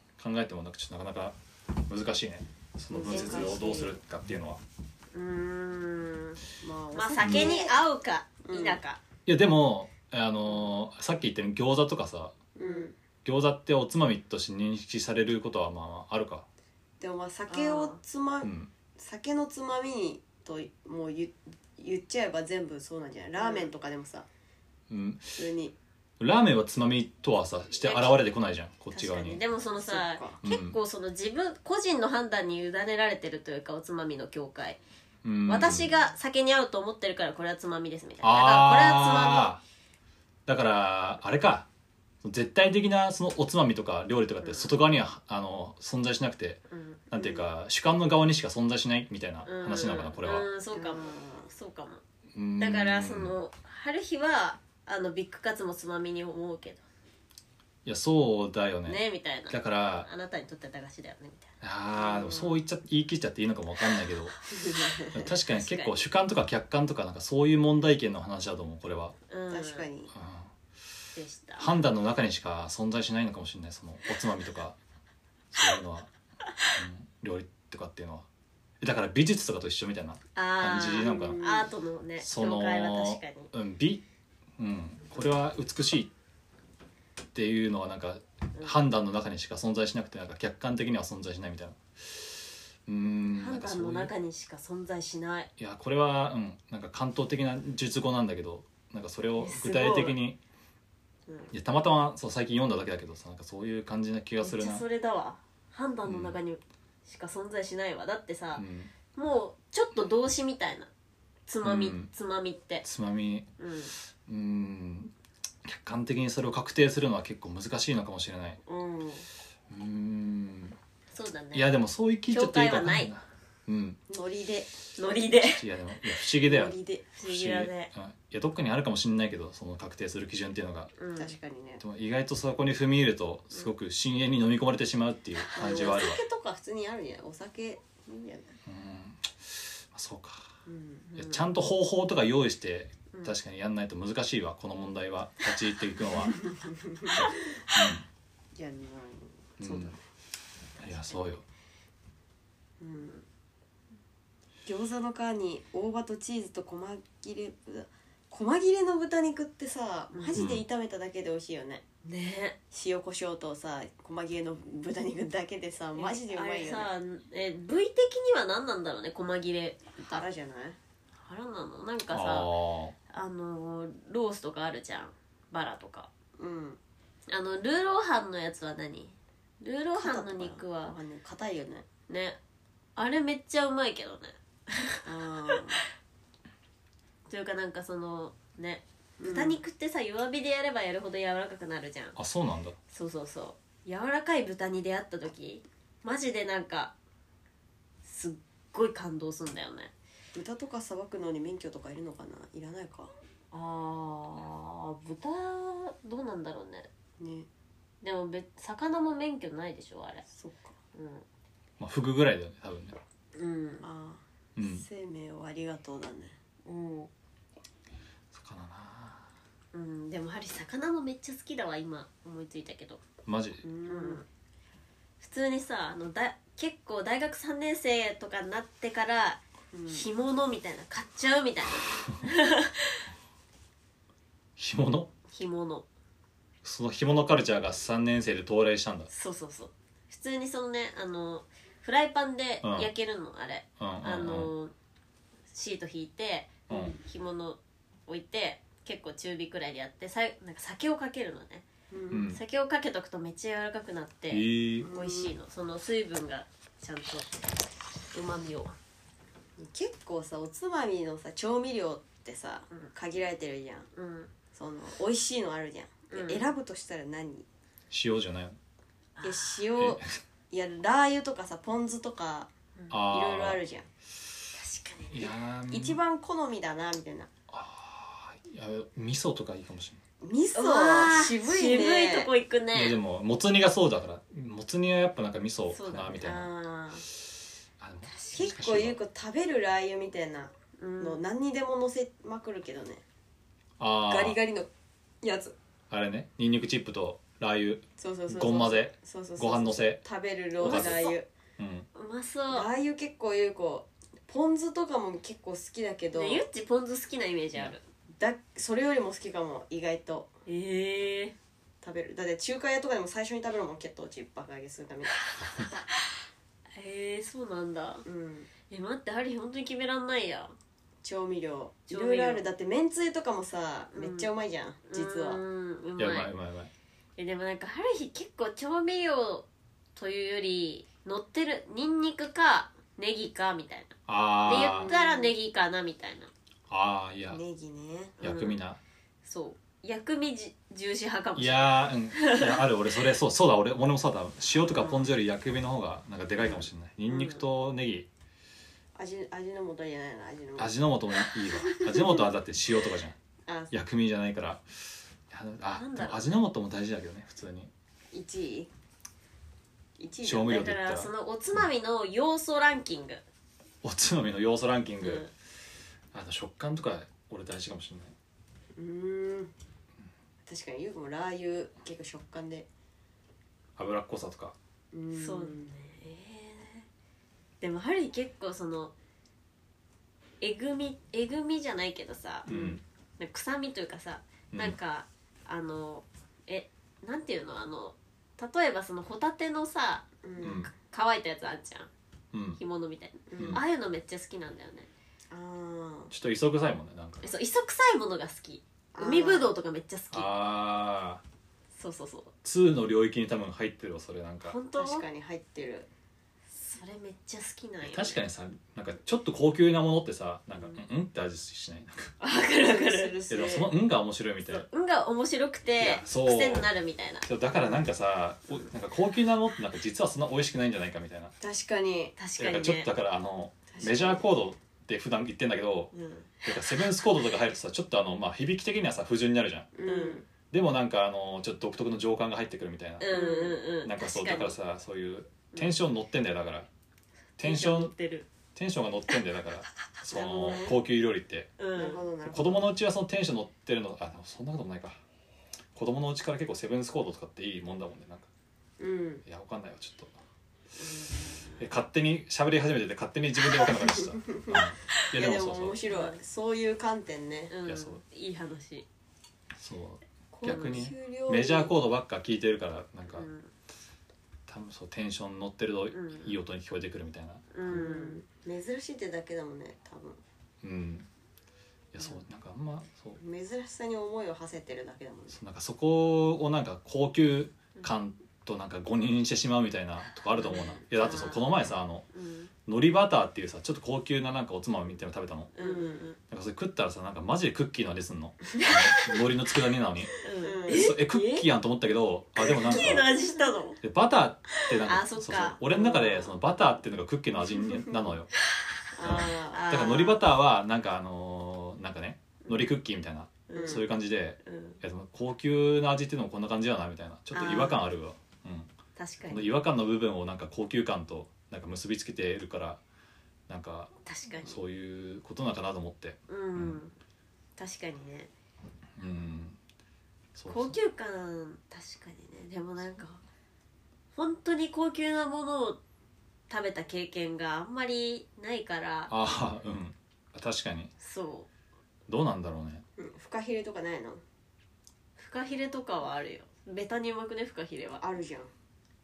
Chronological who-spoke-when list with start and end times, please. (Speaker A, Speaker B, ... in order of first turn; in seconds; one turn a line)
Speaker A: 0.2-4.6
Speaker B: 2.9-4.0
Speaker C: 3.1-3.9
Speaker C: 5.1-6.4
Speaker B: 6.6-7.8
Speaker C: 6.9-9.0
Speaker A: 7.2-7.6
Speaker B: 8.4-8.8
Speaker A: 9.3-12.3
Speaker B: 12.6-12.9
Speaker C: 12.6-12.9
Speaker A: 13.2-16.5
Speaker B: 17.0-24.3
Speaker C: 17.5-18.0
Speaker A: 18.4-18.7
Speaker C: 23.4-23.7
Speaker A: 24.9-25.4
Speaker B: 25.4-25.8
Speaker A: 26.2-29.4
Speaker C: 27.8-28.2
Speaker C: 28.9-34.8
Speaker B: 29.8-30.4
Speaker A: 30.4-30.8
Speaker A: 35.2-35.9
Speaker C: 35.5-39.5
Speaker A: 38.2-39.6
Speaker A: 40.5-41.7
Speaker A: 42.2-50.5
Speaker C: 44.4-44.8
Speaker C: 46.7-47.0
Speaker B: 47.1-47.5
Speaker C: 49.5-52.0
Speaker B: 50.7-51.5
Speaker A: 52.3-53.3
Speaker C: 52.6-56.8
Speaker A: 57.9-60.1
Speaker C: 58.9-62.5
Speaker A: 61.6-64.4
Speaker B: 64.6-65.2
Speaker A: 65.0-69.2
Speaker C: 65.5-66.0
Speaker C: 69.3-69.9
Speaker B: 69.5-70.1
Speaker A: 70.1-70.5
Speaker C: 71.2-71.7
Speaker A: 71.6-74.8
Speaker A: 75.5-76.1
Speaker A: 76.8-78.3
Speaker A: 78.8-81.4
Speaker C: 80.3-83.5
Speaker B: 80.9-81.7
Speaker A: 82.2-84.0
Speaker A: 84.6-86.1
Speaker A: 87.3-94.1
Speaker C: 93.3-95.5
Speaker A: 95.6-100.4
Speaker C: 99.4-100.2
Speaker C: 101.3-101.5
Speaker A: 101.5-104.8
Speaker C: 104.4-110.9
Speaker A: 106.0-106.4
Speaker A: 108.6-108.9
Speaker C: 111.5-112.8
Speaker A: 111.6-112.1
Speaker A: 112.8-113.5
Speaker C: 113.6-113.9
Speaker A: 114.2-115.1
Speaker A: 115.6-118.6
Speaker C: 118.7-119.2
Speaker A: 119.7-120.8
Speaker C: 121.1-121.7
Speaker A: 121.5-124.0
Speaker C: 122.3-123.1
Speaker B: 124.1-124.7
Speaker C: 125.0-125.6
Speaker A: 125.4-130.9
Speaker B: 126.4-127.0
Speaker C: 127.1-127.9
Speaker C: 131.0-131.3
Speaker B: 131.2-131.8
Speaker A: 131.8-136.2
Speaker B: 135.5-138.5
Speaker A: 138.7-140.5
Speaker B: 140.7-141.1
Speaker C: 141.1-141.5
Speaker A: 141.2-146.4
Speaker C: 143.1-143.4
Speaker B: 146.4-147.2
Speaker A: 147.1-148.1
Speaker B: 148.6-150.0
Speaker A: 149.6-150.0
Speaker A: 150.8-151.4
Speaker B: 152.8-153.2
Speaker B: 154.7-161.8
Speaker C: 160.1-160.4
Speaker A: 160.3-160.7
Speaker C: 162.1-162.6
Speaker B: 162.7-166.9
Speaker C: 166.0-170.2
Speaker B: 170.0-170.8
Speaker C: 171.2-172.5
Speaker A: 172.1-172.9
Speaker C: 173.1-176.1
Speaker B: 176.4-176.8
Speaker C: 177.3-181.0
Speaker B: 179.9-181.8
Speaker C: 182.1-182.4
Speaker C: 183.0-185.6
Speaker B: 185.1-185.8
Speaker C: 187.3-192.2
Speaker B: 189.2-189.6
Speaker A: 192.2-192.8
Speaker C: 192.9-196.9
Speaker C: 198.0-199.9
Speaker B: 200.3-203.1
Speaker C: 203.5-206.9
Speaker B: 207.2-207.5
Speaker C: 208.0-210.2
Speaker B: 210.3-210.7
Speaker C: 210.9-211.2
Speaker A: 211.8-213.0
Speaker C: 213.4-213.8
Speaker B: 213.8-216.3
Speaker A: 214.6-214.8
Speaker C: 216.7-217.1
Speaker A: 218.3-219.3
Speaker C: 219.7-223.0
Speaker A: 223.3-223.6
Speaker B: 223.6-224.2
Speaker C: 223.8-224.2
Speaker C: 225.2-233.1
Speaker B: 229.7-230.1
Speaker A: 234.6-235.1
Speaker C: 235.3-235.9
Speaker A: 236.6-239.1
Speaker C: 239.1-244.7
Speaker A: 242.6-242.9
Speaker A: 243.8-244.5
Speaker C: 245.5-251.7
Speaker A: 246.7-247.0
Speaker B: 251.9-252.3
Speaker A: 252.1-252.4
Speaker C: 252.2-257.3
Speaker A: 254.3-254.9
Speaker B: 254.8-255.3
Speaker C: 258.1-258.8
Speaker B: 259.6-263.9
Speaker C: 263.9-264.3
Speaker B: 264.5-267.5
Speaker C: 266.1-266.5
Speaker A: 267.9-268.6
Speaker C: 269.2-269.6
Speaker B: 269.2-273.9
Speaker A: 269.8-270.2
Speaker A: 272.9-273.6
Speaker C: 274.5-275.3
Speaker A: 275.1-276.0
Speaker B: 275.7-277.3
Speaker A: 277.5-280.0
Speaker B: 280.2-282.3
Speaker C: 280.6-283.0
Speaker A: 282.7-286.5
Speaker C: 285.7-286.3
Speaker B: 286.2-287.1
Speaker A: 287.8-289.0
Speaker C: 288.1-288.4
Speaker B: 288.3-293.0
Speaker C: 290.8-291.2
Speaker A: 293.8-294.4
Speaker B: 294.1-294.7
Speaker B: 295.2-295.5
Speaker A: 295.9-300.0
Speaker B: 298.0-301.3
Speaker C: 300.6-301.2
Speaker A: 300.6-301.9
Speaker C: 301.9-302.7
Speaker B: 302.5-306.4
Speaker C: 306.1-307.8
Speaker B: 308.2-310.3
Speaker C: 310.5-311.3
Speaker B: 311.8-315.3
Speaker C: 315.2-316.2
Speaker C: 316.8-318.1
Speaker B: 318.1-318.5
Speaker C: 318.7-320.6
Speaker B: 321.0-325.4
Speaker C: 321.9-322.4
Speaker C: 323.9-324.3
Speaker C: 324.9-326.3
Speaker A: 326.0-326.7
Speaker C: 327.2-336.3
Speaker A: 334.1-334.9
Speaker B: 334.5-335.3
Speaker A: 336.7-337.4
Speaker B: 337.3-338.2
Speaker C: 338.2-338.6
Speaker A: 338.2-338.8
Speaker C: 339.2-342.6
Speaker A: 341.4-348.1
Speaker B: 344.6-345.1
Speaker C: 347.1-347.4
Speaker B: 348.9-350.7
Speaker A: 350.6-353.2
Speaker B: 351.7-352.0
Speaker B: 353.5-353.7
Speaker A: 353.7-357.7
Speaker C: 355.7-356.3
Speaker B: 358.1-358.7
Speaker B: 360.0-360.6
Speaker A: 360.2-361.1
Speaker C: 360.5-363.2
Speaker A: 363.8-365.3
Speaker C: 365.0-365.3
Speaker A: 366.1-368.1
Speaker B: 368.8-369.5
Speaker B: 370.5-372.7
Speaker A: 373.8-374.6
Speaker B: 374.9-375.7
Speaker C: 375.1-376.9
Speaker C: 377.6-378.9
Speaker C: 380.4-382.5
Speaker A: 382.5-382.8
Speaker B: 382.5-382.8
Speaker C: 383.2-390.1
Speaker A: 384.5-384.8
Speaker B: 390.2-390.7
Speaker A: 390.4-390.7
Speaker C: 390.7-391.9
Speaker A: 392.3-392.6
Speaker C: 392.6-394.9
Speaker B: 393.3-393.6
Speaker A: 393.4-393.6
Speaker B: 395.3-396.1
Speaker A: 396.1-397.3
Speaker C: 397.2-400.3
Speaker B: 398.9-399.5
Speaker A: 400.1-401.2
Speaker C: 401.8-402.3
Speaker A: 402.4-404.6
Speaker C: 404.5-405.1
Speaker B: 404.8-405.9
Speaker C: 406.5-408.2
Speaker A: 407.8-412.1
Speaker C: 412.2-413.1
Speaker B: 412.7-413.7
Speaker A: 413.3-414.6
Speaker C: 414.5-417.3
Speaker A: 415.8-416.7
Speaker A: 417.2-421.3
Speaker B: 417.5-417.9
Speaker B: 421.4-422.2
Speaker C: 422.2-422.9
Speaker A: 422.4-425.9
Speaker B: 423.7-424.2
Speaker C: 425.9-427.0
Speaker A: 426.4-429.7
Speaker B: 429.8-430.3
Speaker C: 429.9-430.2
Speaker A: 430.5-433.2
Speaker C: 433.0-434.6
Speaker B: 433.1-433.6
Speaker A: 433.8-436.7
Speaker A: 437.4-437.9
Speaker C: 437.4-438.3
Speaker A: 438.6-441.5
Speaker B: 440.1-440.7
Speaker C: 440.2-440.6
Speaker C: 441.6-442.0
Speaker B: 441.7-442.7
Speaker A: 442.3-445.0
Speaker A: 445.8-448.3
Speaker B: 448.8-449.2
Speaker A: 449.2-450.1
Speaker C: 451.0-451.6
Speaker A: 451.6-455.8
Speaker B: 454.0-457.5
Speaker C: 455.9-456.2
Speaker C: 457.5-458.9
Speaker A: 457.7-458.0
Speaker A: 459.6-463.3
Speaker B: 460.3-461.7
Speaker C: 460.5-460.9
Speaker C: 463.1-463.5
Speaker A: 464.5-467.8
Speaker C: 465.9-466.4
Speaker C: 467.5-468.2
Speaker B: 467.7-470.2
Speaker A: 470.6-471.1
Speaker A: 471.9-473.2
Speaker B: 473.2-475.4
Speaker A: 475.3-482.1
Speaker C: 480.4-481.5
Speaker B: 480.6-481.3
Speaker C: 482.1-482.5
Speaker A: 482.7-485.5
Speaker C: 485.6-486.2
Speaker B: 485.6-486.0
Speaker A: 486.3-490.1
Speaker C: 488.6-489.1
Speaker C: 490.2-491.1
Speaker B: 490.4-491.4
Speaker A: 490.7-493.1
Speaker C: 492.4-493.8
Speaker B: 492.5-493.5
Speaker A: 493.8-498.3
Speaker C: 494.6-496.2
Speaker B: 495.9-496.2
Speaker B: 497.8-498.0
Speaker B: 498.9-499.8
Speaker C: 499.0-500.2
Speaker A: 499.0-508.7
Speaker C: 502.4-502.7
Speaker C: 503.5-503.9
Speaker B: 503.5-503.9
Speaker C: 504.4-504.8
Speaker C: 507.3-507.8
Speaker C: 509.0-509.5
Speaker A: 509.3-512.8
Speaker A: 513.5-516.8
Speaker C: 514.1-514.6
Speaker C: 516.3-517.0
Speaker C: 517.6-518.3
Speaker A: 519.0-519.6
Speaker A: 520.4-520.8
Speaker C: 520.5-523.2
Speaker C: 524.1-525.8
Speaker C: 526.5-529.1
Speaker A: 529.1-530.9
Speaker C: 531.0-531.5
Speaker A: 532.1-532.8
Speaker B: 533.0-534.2
Speaker C: 535.2-538.0
Speaker B: 538.0-538.5